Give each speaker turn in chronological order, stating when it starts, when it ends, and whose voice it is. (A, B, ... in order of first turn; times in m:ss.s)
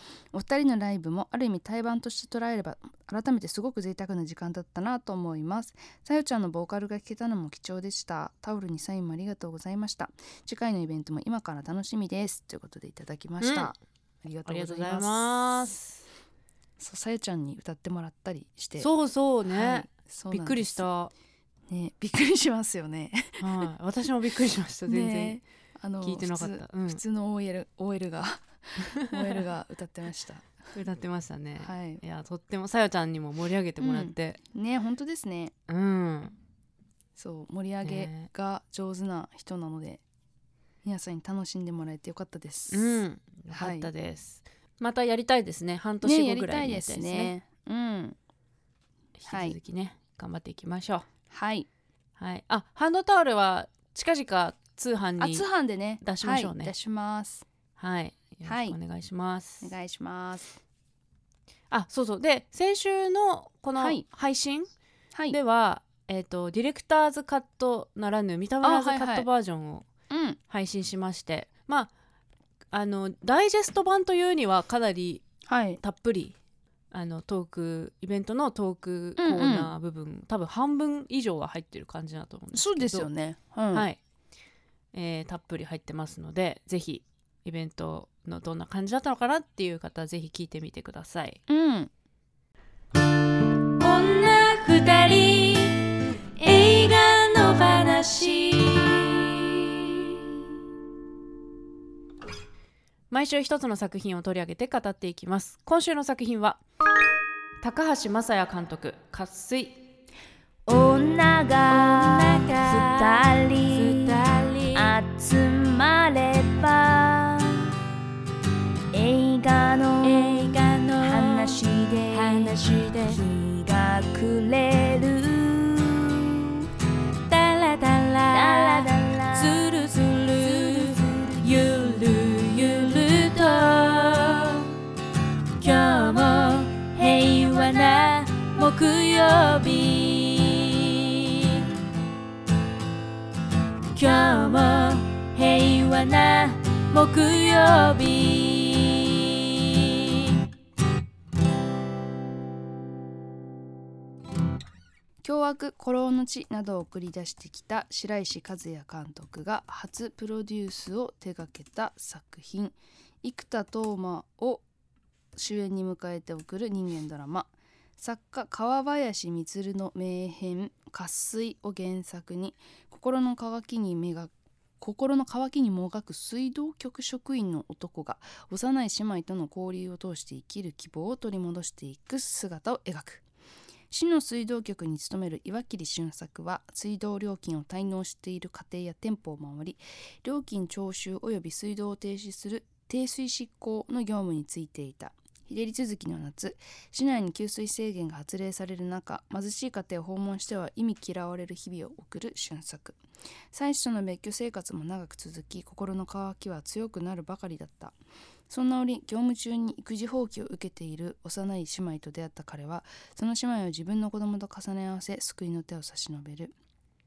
0:00.3-0:15.7 A
0:13.4-0:13.7 B
0:14.4-0:16.0 B
0:16.8-0:18.9 A
0:18.8-0:21.1 B
0:19.5-0:20.8 A
0:21.7-0:23.4 A
0:23.4-0:25.4 B
0:24.9-0:30.5 A
0:26.0-0:27.0 B
0:28.8-0:29.4 B
0:30.7-0:34.4 B
0:31.6-0:32.0 A
0:33.8-0:35.5 A
0:35.7-0:36.4 B
0:37.2-0:40.0 A
0:37.8-0:38.3 B
0:40.8-0:43.9 A
0:42.7-0:47.3 B
0:46.0-0:48.2 A
0:49.2-0:51.0 B
0:49.3-0:49.6 A
0:51.3-0:51.7 A
0:52.2-0:55.4 B
0:55.2-0:57.4 A
0:56.0-0:56.7 B
0:57.8-0:59.7 B
0:58.4-0:58.8 A
0:59.6-1:00.6 A
1:01.7-1:04.7 B
1:03.8-1:04.0 A
1:05.3-1:09.8 B
1:08.6-1:09.3 A
1:10.1-1:10.4 A
1:10.5-1:11.9 B
1:12.7-1:15.2 B
1:15.5-1:15.8 A
1:15.8-1:16.3 B
1:16.9-1:23.1 B
1:19.2-1:19.7 A
1:22.5-1:23.9 A
1:23.7-1:24.0 B
1:24.9-1:31.4 B
1:31.5-1:31.9 A
1:33.8-1:35.8 B
1:36.4-1:39.4 B
1:43.1-1:46.6 B
1:47.6-1:49.8 B
1:50.6-1:57.7 C
1:51.7-1:54.9 B
1:58.9-2:06.6 C
2:00.0-2:03.2 B
2:07.3-2:14.7 B
2:08.3-2:09.8 C
2:10.4-2:11.0 C
2:12.6-2:13.2 C
2:15.6-2:21.6 B
2:17.2-2:18.1 C
2:24.0-2:29.7 B
2:35.2-2:44.6 A
2:45.4-3:03.2 A
3:03.9-3:23.0 A
3:23.5-3:27.9 A
3:28.5-3:36.5 A